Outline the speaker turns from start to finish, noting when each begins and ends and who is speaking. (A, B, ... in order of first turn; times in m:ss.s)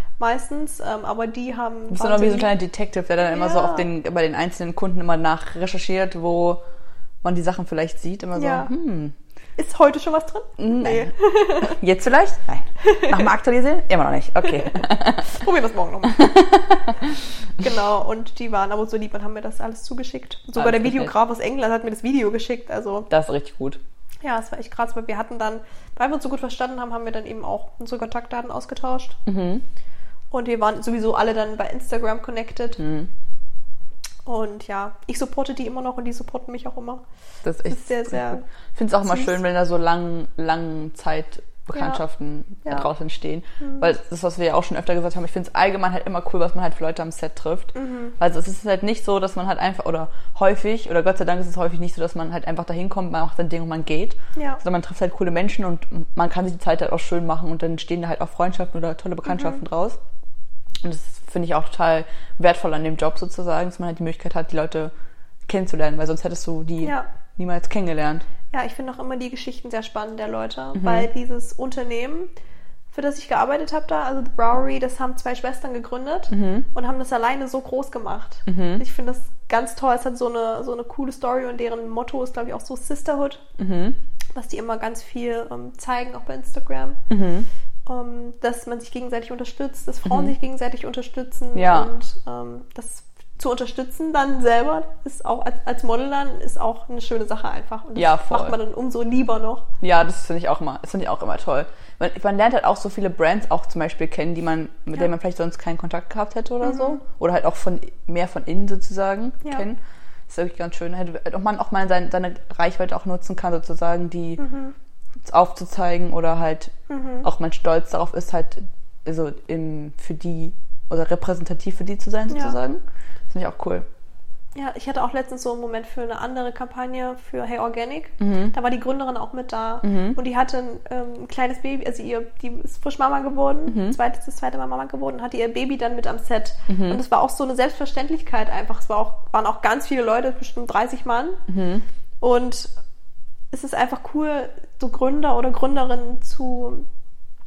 0:00.2-0:02.5 A
0:01.9-0:06.6 B
0:03.2-0:03.9 A
0:07.2-0:09.2 B
0:08.4-0:08.7 A
0:09.6-0:11.8 A
0:10.6-0:15.4 B
0:12.8-0:13.3 A
0:14.5-0:16.4 A
0:16.1-0:17.2 B
0:17.6-0:23.1 A
0:20.6-0:21.1 B
0:23.1-0:23.8 B
0:24.2-0:29.2 A
0:29.3-0:29.6 B
0:30.3-0:32.8 A
0:32.8-0:33.1 B
0:34.3-0:37.0 A
0:37.4-1:00.0 B
0:37.6-0:38.4 A
0:39.1-0:39.4 A
0:41.8-0:42.0 A
0:43.6-0:43.9 A
0:47.8-0:48.2 A
0:54.4-0:54.6 A
0:59.3-0:59.6 A
1:00.8-1:04.9 B
1:05.5-1:08.2 B
1:06.8-1:07.1 A
1:08.5-1:12.3 A
1:10.8-1:11.1 B
1:12.9-1:23.4 A
1:16.3-1:16.7 B
1:18.5-1:18.8 B
1:23.6-1:24.0 B
1:24.4-1:27.0 A
1:27.1-1:27.5 B
1:27.9-1:39.7 A
1:30.1-1:30.3 B
1:31.5-1:31.9 B
1:38.0-1:38.6 B
1:39.8-1:49.8 B
1:50.3-1:54.4 B
1:54.4-1:54.8 A
1:55.2-1:56.7 B
1:56.9-1:57.3 A
1:57.2-2:03.9 B
2:02.3-2:02.6 A
2:04.6-2:21.4 A
2:08.2-2:08.5 B
2:09.8-2:10.2 B
2:13.7-2:14.0 B
2:16.7-2:17.0 B
2:21.5-2:21.8 B
2:22.2-2:22.7 A
2:23.5-2:26.9 A